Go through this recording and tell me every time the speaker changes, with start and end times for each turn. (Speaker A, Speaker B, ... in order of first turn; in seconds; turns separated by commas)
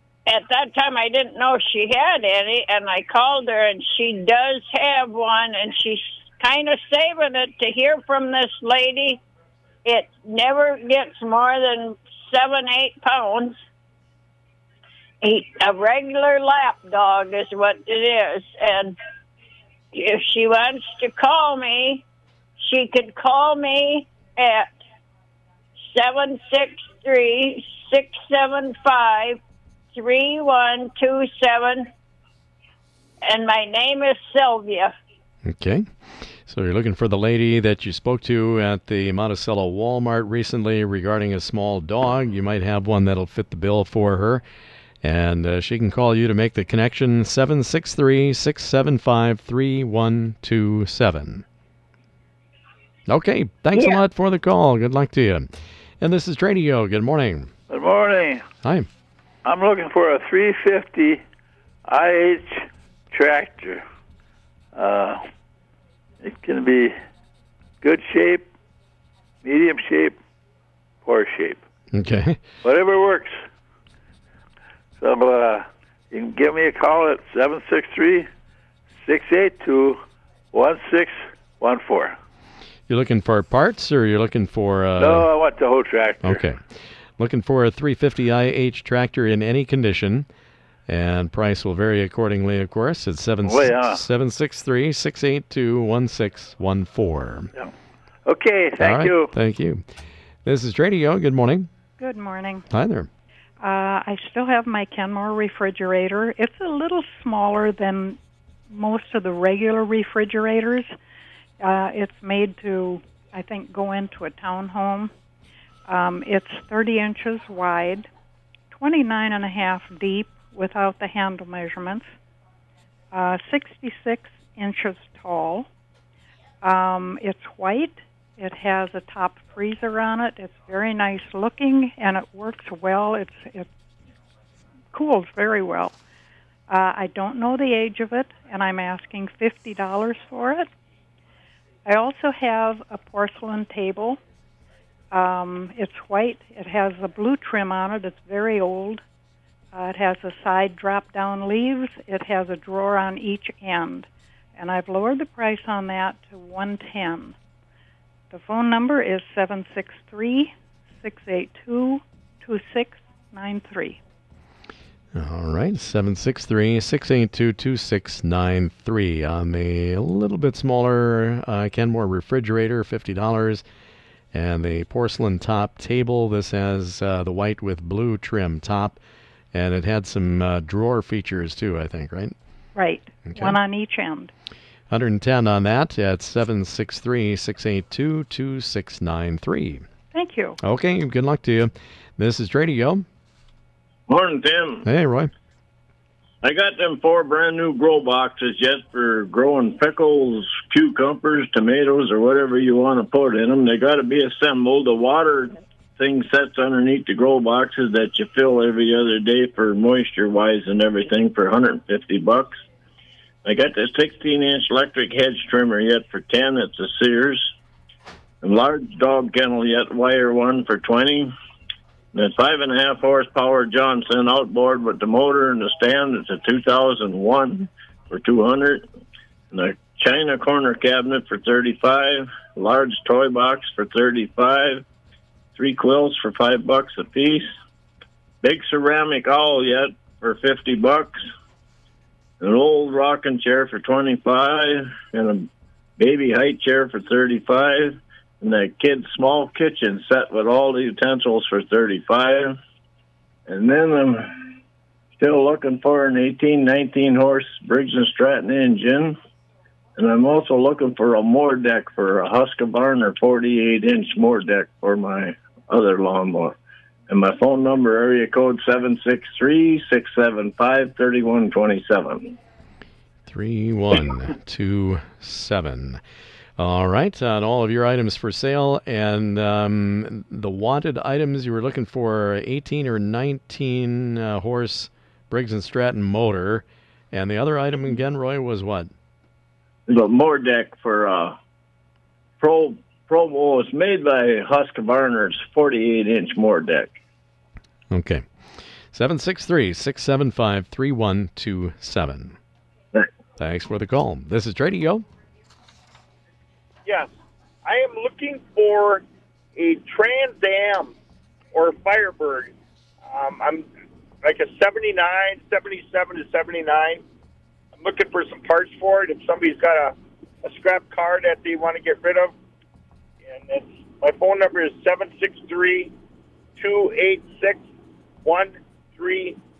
Speaker A: 0.3-9.2, Speaker A: 9.8-13.6, Speaker A: 15.2-19.0, Speaker A: 19.9-22.0, Speaker A: 22.6-24.7, Speaker A: 25.9-29.4, Speaker A: 29.9-31.9, Speaker A: 33.2-34.9, Speaker B: 35.5-35.9, Speaker B: 36.5-44.4, Speaker B: 45.0-51.4, Speaker B: 53.1-55.5, Speaker B: 56.0-57.5, Speaker C: 57.7-58.4, Speaker B: 58.6-58.9, Speaker C: 59.4-61.2, Speaker C: 61.9-63.8, Speaker C: 64.7-65.2, Speaker C: 66.2-67.0, Speaker C: 67.8-68.5, Speaker C: 69.4-70.2, Speaker C: 71.0-71.6, Speaker B: 71.9-72.4, Speaker C: 72.6-73.4, Speaker C: 75.0-78.3, Speaker C: 79.0-80.0, Speaker C: 80.5-82.2, Speaker B: 82.9-85.3, Speaker C: 85.0-86.4, Speaker B: 86.2-86.6, Speaker B: 87.2-90.3, Speaker B: 90.9-97.5, Speaker C: 93.4-94.0, Speaker C: 98.2-99.3, Speaker B: 98.8-99.8, Speaker B: 100.4-101.7, Speaker D: 102.0-102.6, Speaker B: 102.7-103.1, Speaker D: 103.6-108.2, Speaker D: 108.7-110.9, Speaker D: 111.6-115.1, Speaker D: 115.9-118.1, Speaker D: 118.7-122.1, Speaker D: 123.1-125.7, Speaker D: 126.6-133.7, Speaker D: 134.9-135.9, Speaker D: 136.7-140.7, Speaker D: 141.8-144.2, Speaker D: 145.1-149.0, Speaker D: 149.7-157.4, Speaker D: 158.3-164.0, Speaker B: 165.1-173.6, Speaker B: 174.3-179.0, Speaker B: 179.5-182.3, Speaker D: 182.7-184.3, Speaker B: 183.3-183.6, Speaker B: 184.9-189.8, Speaker D: 190.1-190.6, Speaker B: 190.6-193.1, Speaker E: 194.1-194.8, Speaker B: 194.8-195.3, Speaker E: 196.4-212.6, Speaker E: 213.4-217.5, Speaker E: 218.4-221.3, Speaker E: 222.1-228.8, Speaker E: 229.5-234.8, Speaker E: 235.6-237.5, Speaker E: 238.4-241.2, Speaker E: 242.4-252.6, Speaker E: 253.5-254.5, Speaker E: 255.2-259.2, Speaker E: 260.0-266.6, Speaker E: 267.1-272.4, Speaker B: 273.3-276.0, Speaker B: 276.6-288.9, Speaker E: 289.9-291.4, Speaker E: 292.4-296.9, Speaker B: 297.9-298.2, Speaker B: 298.9-302.4, Speaker B: 303.4-305.0, Speaker F: 306.9-307.1, Speaker F: 307.6-309.0, Speaker F: 309.6-311.0, Speaker F: 311.5-312.5, Speaker F: 313.1-313.7, Speaker F: 314.2-317.0, Speaker F: 317.8-322.3, Speaker F: 323.3-325.9, Speaker F: 326.6-327.6, Speaker F: 328.2-329.4